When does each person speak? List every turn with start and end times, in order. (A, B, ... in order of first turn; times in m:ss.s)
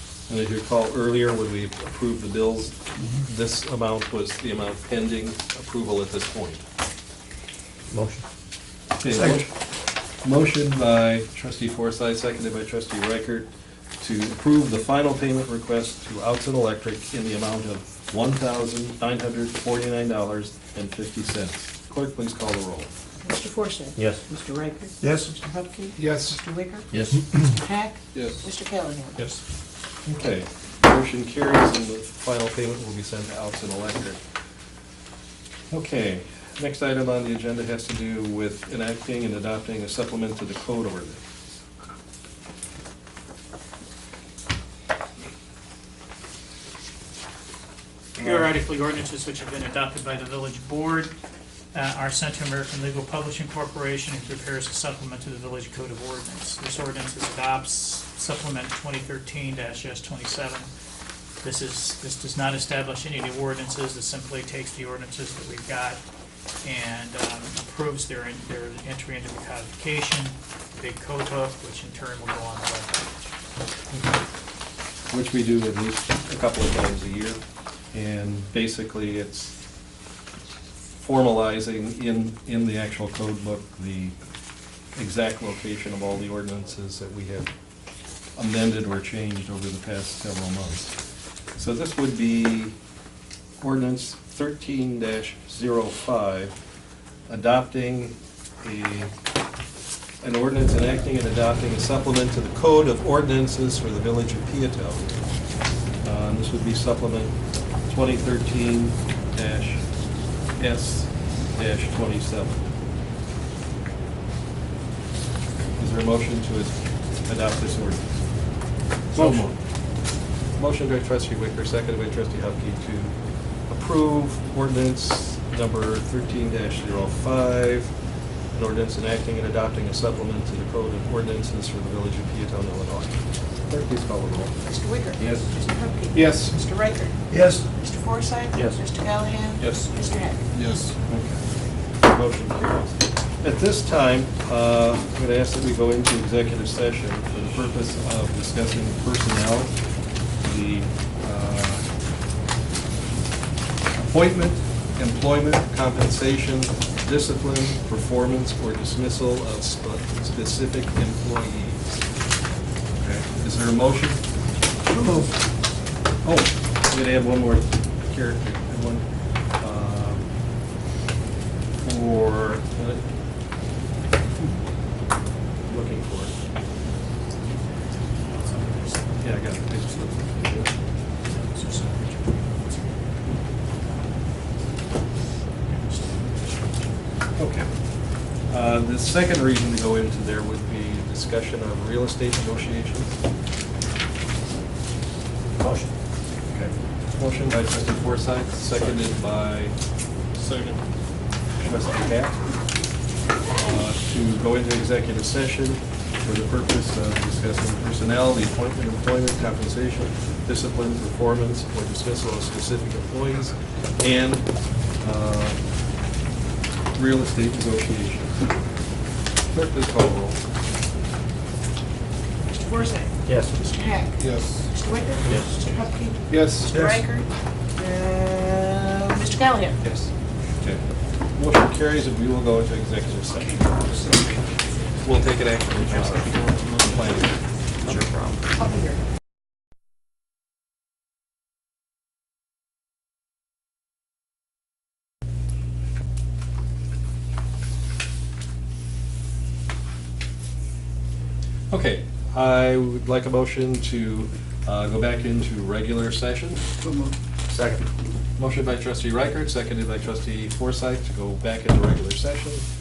0:00.3-0:06.6 A
0:07.9-0:08.2 B
0:09.0-0:09.5 A
0:10.2-0:13.5 A
0:14.0-0:22.9 A
0:23.2-0:26.9 C
0:24.0-0:24.2 B
0:26.0-0:26.4 D
0:26.9-0:27.2 B
0:27.4-0:29.2 C
0:28.1-0:28.4 D
0:30.0-0:34.2 A
0:35.7-0:41.2 A
0:48.2-0:51.1 E
0:51.7-1:00.7 E
1:01.4-1:06.0 E
1:06.6-1:13.3 E
1:15.1-1:17.4 A
1:17.9-1:19.5 A
1:21.0-1:24.2 A
1:25.0-1:27.5 A
1:28.4-1:31.0 A
1:31.6-1:32.8 A
1:33.6-1:36.5 A
1:37.3-1:39.1 A
1:40.2-1:45.2 A
1:46.0-1:47.3 A
1:47.9-1:49.8 A
1:50.6-1:52.6 A
1:55.8-1:58.0 A
1:59.1-1:59.5 D
1:59.1-1:59.5 A
2:00.6-2:03.1 A
2:03.7-2:07.9 A
2:08.5-2:14.5 A
2:14.6-2:17.1 C
2:15.2-2:15.5 B
2:16.1-2:16.5 D
2:17.3-2:17.6 B
2:17.7-2:20.4 C
2:18.5-2:18.8 B
2:19.6-2:19.9 D
2:20.5-2:20.9 D
2:21.0-2:21.4 A
2:22.0-2:29.7 A
2:30.4-2:31.8 A
2:34.0-2:41.8 A
2:43.0-2:44.2 A
2:44.9-2:45.3 C
2:46.2-2:49.0 A
2:49.6-2:50.3 A
2:51.8-2:53.0 A
2:55.7-2:56.4 A
2:58.2-2:59.7 E
2:59.2-3:00.7 A
3:01.2-3:03.1 E
3:05.6-3:06.9 E
3:07.4-3:07.7 A
3:08.5-3:13.2 A
3:15.6-3:15.9 B
3:16.5-3:19.7 A
3:20.4-3:20.8 D
3:21.6-3:22.4 A
3:23.6-3:34.5 A
3:35.0-3:35.6 A
3:36.9-3:38.4 A
3:39.5-3:40.4 A
3:42.5-3:49.8 C
3:43.2-3:43.6 B
3:44.2-3:44.7 D
3:46.3-3:46.8 D
3:51.4-3:54.0 A
3:55.0-3:57.4 A
3:57.8-3:58.4 B
3:58.6-3:58.9 C
4:11.7-4:16.6 A
4:17.5-4:17.8 B
4:18.4-4:22.6 A